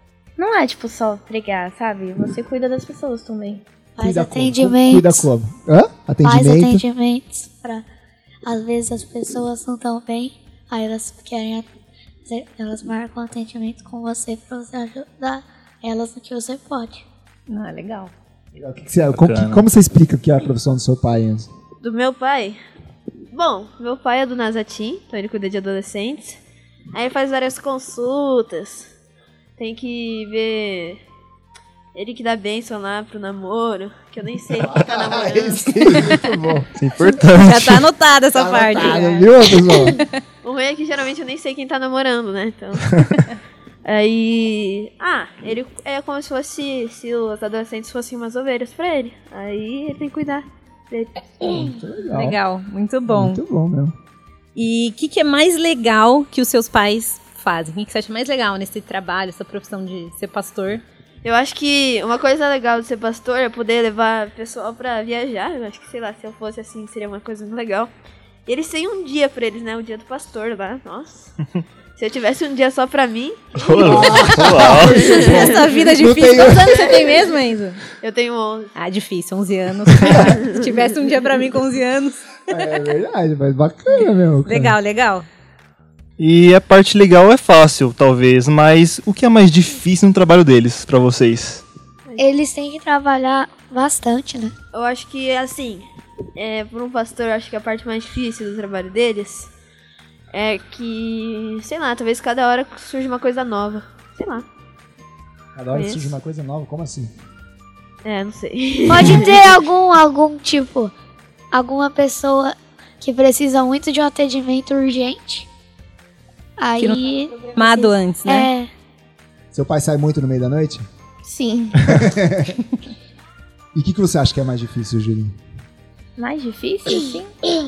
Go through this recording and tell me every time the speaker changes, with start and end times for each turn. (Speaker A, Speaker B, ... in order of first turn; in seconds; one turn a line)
Speaker A: 0.4-3.6
Speaker B: 4.0-5.2
Speaker C: 4.0-6.8
Speaker B: 6.2-7.8
Speaker B: 8.4-11.7
Speaker B: 12.3-17.0
Speaker D: 17.5-18.1
Speaker C: 18.6-21.5
Speaker E: 19.1-19.7
Speaker F: 21.8-22.6
Speaker F: 23.3-26.4
Speaker F: 26.9-28.9
Speaker F: 29.6-31.0
Speaker F: 31.9-36.2
Speaker C: 34.6-36.7
Speaker E: 36.8-37.9
Speaker D: 37.3-40.2
Speaker C: 38.3-40.0
Speaker F: 40.4-43.0
Speaker F: 43.9-51.7
Speaker C: 51.6-52.4
Speaker D: 52.1-53.4
Speaker C: 53.1-54.0
Speaker D: 54.5-60.8
Speaker F: 61.2-67.9
Speaker F: 68.5-71.3
Speaker F: 72.0-74.2
Speaker E: 73.6-75.2
Speaker C: 73.8-77.1
Speaker F: 74.8-75.5
Speaker D: 74.9-77.8
Speaker F: 78.0-78.8
Speaker D: 78.8-82.7
Speaker F: 80.4-80.7
Speaker C: 82.5-84.8
Speaker D: 84.5-85.3
Speaker E: 86.2-91.7
Speaker B: 92.2-94.5
Speaker F: 94.7-99.5
Speaker F: 100.3-104.5
Speaker C: 105.5-107.1
Speaker F: 105.7-106.1
Speaker F: 108.0-109.5
Speaker B: 108.9-110.9
Speaker B: 111.5-115.5
Speaker B: 116.6-118.7
Speaker D: 117.5-118.5
Speaker C: 119.5-120.9
Speaker A: 121.2-121.8
Speaker C: 121.8-122.6
Speaker C: 123.7-125.4
Speaker A: 126.2-127.4